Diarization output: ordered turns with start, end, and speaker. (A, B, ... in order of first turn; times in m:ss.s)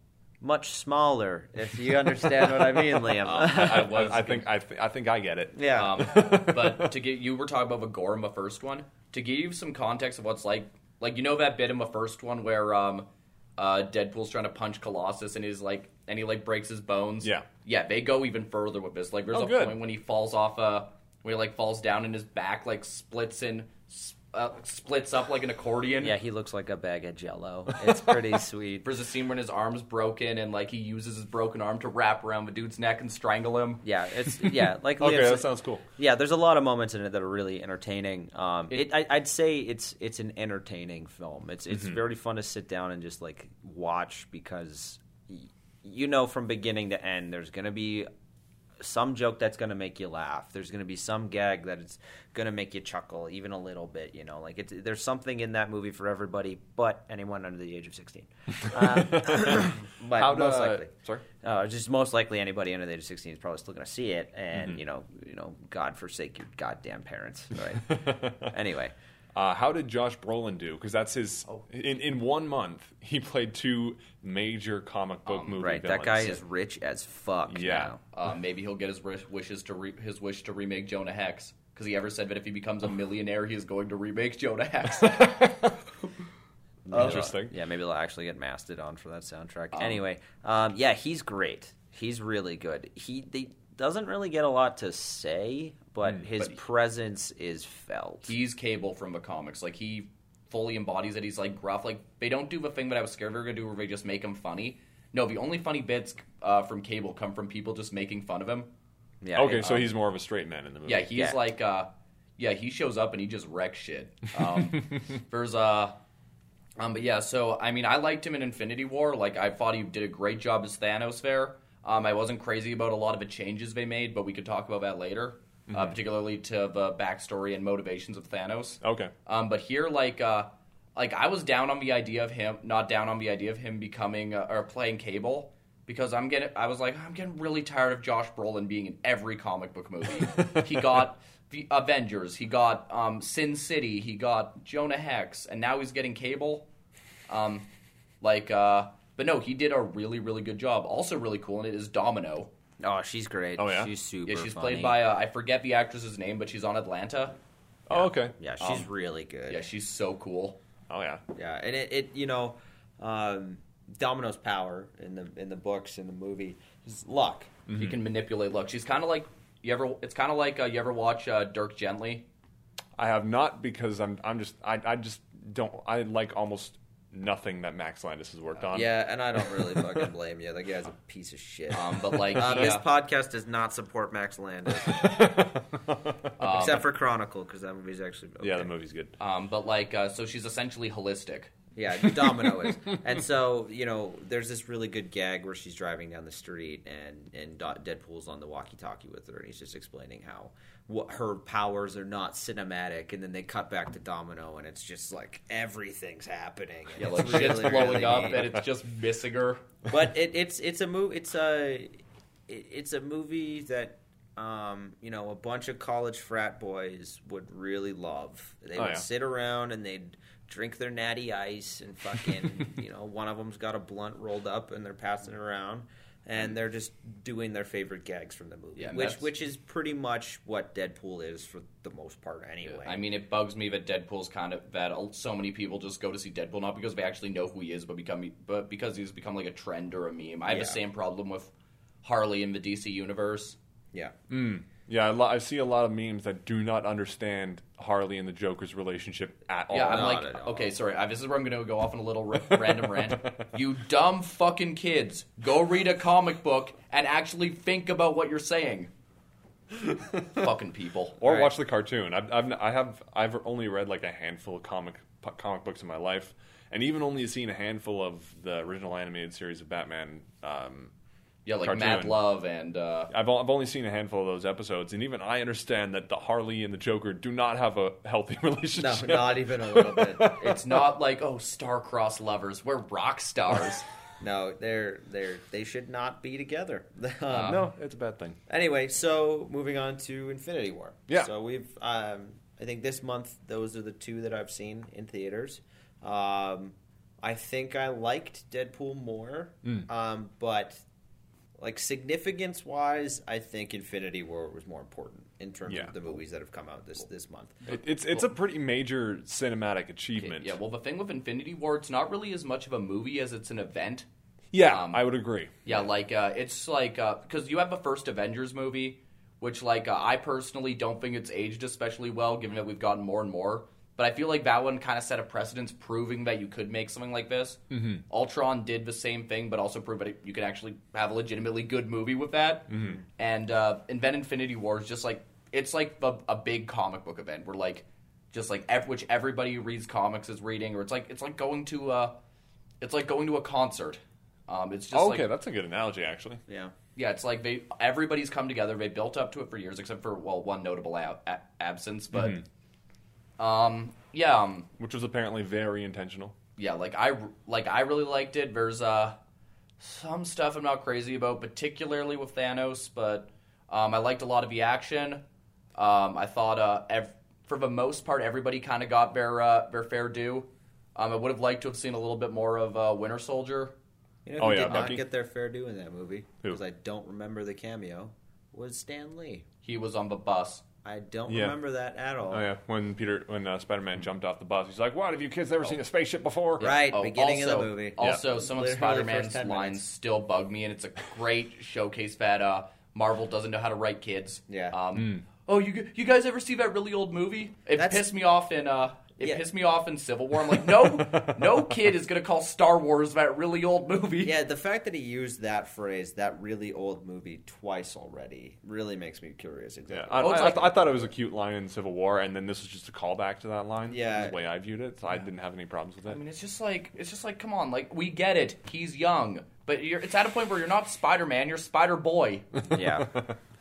0:00.4-0:04.4 A
0:03.2-0:04.4 B
0:03.4-0:06.9 C
0:05.5-0:06.2 A
0:05.7-0:26.2 B
0:19.3-0:19.8 C
0:26.0-0:28.9 A
0:28.8-0:33.8 B
0:33.8-0:48.1 A
0:34.4-0:35.8 C
0:48.8-1:00.9 A
0:58.7-1:01.2 C
1:01.4-1:08.9 A
1:07.8-1:08.5 C
1:09.3-1:16.4 C
1:15.2-1:15.6 B
1:15.6-1:18.0 A
1:17.5-1:17.9 C
1:18.1-1:25.3 B
1:25.0-1:25.8 C
1:26.9-1:27.5 C
1:26.9-1:38.3 A
1:26.9-1:27.3 B
1:29.7-1:30.0 B
1:38.3-1:48.7 B
1:49.2-1:49.8 A
1:49.3-1:51.1 C
1:50.8-1:56.0 B
1:51.2-1:51.4 A
1:56.8-2:26.7 B
2:05.7-2:06.0 C
2:08.8-2:09.1 C
2:27.3-2:27.7 B
2:28.2-2:32.5 B
2:32.8-2:35.0 A
2:33.6-2:33.9 C
2:34.2-2:37.4 B
2:37.9-2:38.4 C
2:37.9-2:39.7 A
2:38.6-2:38.8 B
2:39.5-2:40.6 B
2:40.9-2:41.2 C
2:41.3-2:47.5 A
2:47.7-2:48.0 C
2:47.7-2:52.3 B
2:53.0-2:58.9 C
2:58.7-3:05.5 A
2:59.4-3:00.0 C
3:01.7-3:02.8 B
3:04.9-3:06.1 C
3:06.4-3:06.8 B
3:06.4-3:08.7 A
3:08.4-3:09.2 C
3:09.2-3:11.5 B
3:11.7-3:28.6 A
3:12.2-3:12.9 C
3:27.0-3:29.7 B
3:29.9-3:53.0 A
3:38.8-3:39.0 C
3:48.8-3:49.2 B
3:52.6-4:01.5 B
4:00.5-4:00.8 A
4:02.0-4:03.6 B
4:04.3-4:10.2 C
4:09.7-4:18.9 B
4:09.8-4:10.7 A
4:19.8-4:20.3 C
4:20.4-4:21.5 B
4:21.2-4:30.9 C
4:31.4-4:33.1 B
4:31.6-4:32.2 C
4:33.1-4:40.6 C
4:38.8-4:40.4 A
4:40.3-4:43.8 B
4:44.2-4:47.7 A
4:47.3-4:47.6 B
4:47.3-4:48.4 C
4:48.5-5:00.8 A
5:01.6-5:07.8 A
5:05.7-5:05.9 C
5:07.7-5:10.6 C
5:10.2-5:14.0 B
5:14.5-5:15.5 C
5:14.6-5:15.0 B
5:15.6-5:42.2 B
5:27.7-5:28.0 C
5:32.7-5:33.0 C
5:42.8-5:45.2 B
5:44.9-5:46.4 C
5:46.5-5:46.7 A
5:47.0-5:52.4 B
5:52.1-5:52.4 C
5:53.4-5:54.7 B
5:54.8-5:56.3 C
5:56.6-5:59.2 B
5:59.8-6:05.2 B
6:05.7-6:13.7 B
6:14.2-6:19.4 A
6:14.4-6:15.0 C
6:19.6-6:20.6 B
6:20.8-6:22.4 A
6:21.3-6:21.6 C
6:22.3-6:26.7 C
6:26.6-6:29.8 A
6:26.6-6:44.4 B
6:34.5-6:34.8 A
6:35.0-6:35.2 C
6:37.8-6:38.1 A
6:44.2-6:51.1 A
6:49.9-6:56.2 C
6:50.2-6:50.7 B
6:53.9-6:54.4 A
6:56.1-7:02.5 B
7:02.7-7:03.3 A